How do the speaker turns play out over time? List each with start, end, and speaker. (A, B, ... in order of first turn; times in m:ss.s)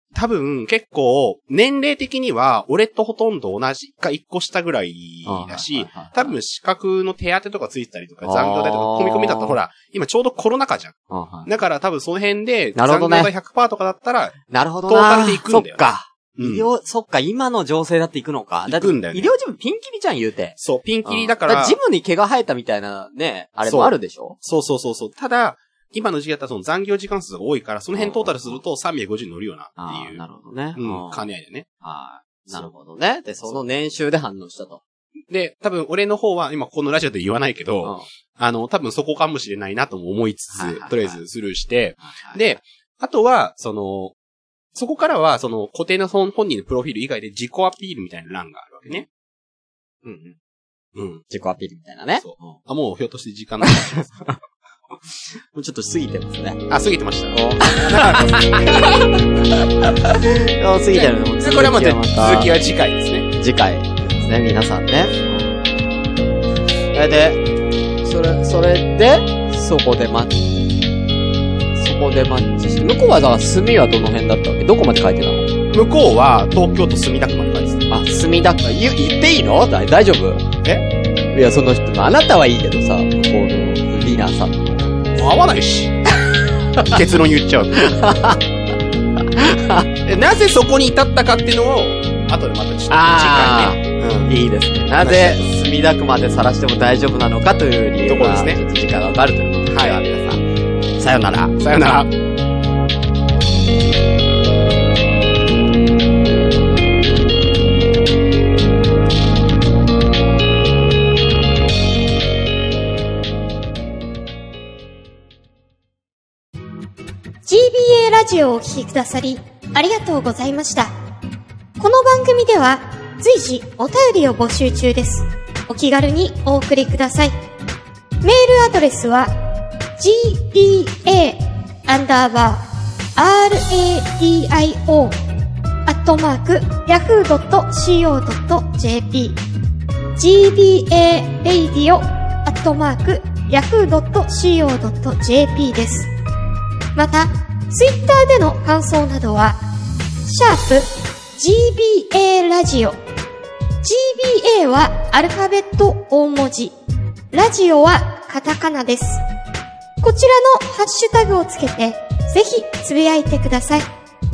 0:00.1-0:11.0 A
0:05.2-0:06.4 B
0:08.2-0:09.6 B
0:11.1-0:11.5 B
0:11.5-0:14.3 A
0:12.8-0:13.3 B
0:14.5-0:24.4 B
0:14.9-0:15.8 A
0:16.4-0:16.7 A
0:18.7-0:19.3 A
0:20.6-0:21.8 A
0:23.6-0:30.2 A
0:27.9-0:28.6 B
0:29.8-0:31.3 B
0:30.8-0:31.7 A
0:31.8-0:34.8 B
0:35.3-0:44.2 A
0:40.5-0:41.2 B
0:42.0-0:42.5 B
0:44.8-0:49.1 A
0:50.0-0:50.4 B
0:51.0-0:51.2 A
0:51.3-0:52.6 B
0:52.2-0:54.3 A
0:53.6-0:54.4 B
0:55.3-0:56.7 B
0:56.7-0:59.2 A
0:57.3-0:58.6 B
0:59.8-1:00.1 A
1:00.4-1:02.5 B
1:00.9-1:03.3 A
1:03.3-1:05.6 B
1:06.9-1:07.4 B
1:08.0-1:10.4 B
1:11.8-1:15.5 B
1:15.7-1:17.9 A
1:17.9-1:20.5 B
1:21.3-1:25.2 B
1:25.2-1:25.9 A
1:26.9-1:27.8 A
1:27.7-1:28.4 B
1:29.4-1:29.9 B
1:30.0-1:34.4 A
1:32.9-1:40.4 B
1:35.0-1:35.6 A
1:38.0-1:38.6 A
1:39.7-1:40.0 A
1:41.0-1:41.6 B
1:41.6-1:42.1 A
1:57.5-2:00.9 C
2:01.8-2:07.3 C
2:08.2-2:09.3 C
2:10.0-2:12.6 C
2:13.2-2:15.2 C
2:15.9-2:19.4 C
2:20.2-2:26.1 C
2:27.0-2:29.6 C
2:30.3-2:33.0 C
2:33.8-2:36.7 C
2:37.3-2:39.2 C
2:40.0-2:43.9 C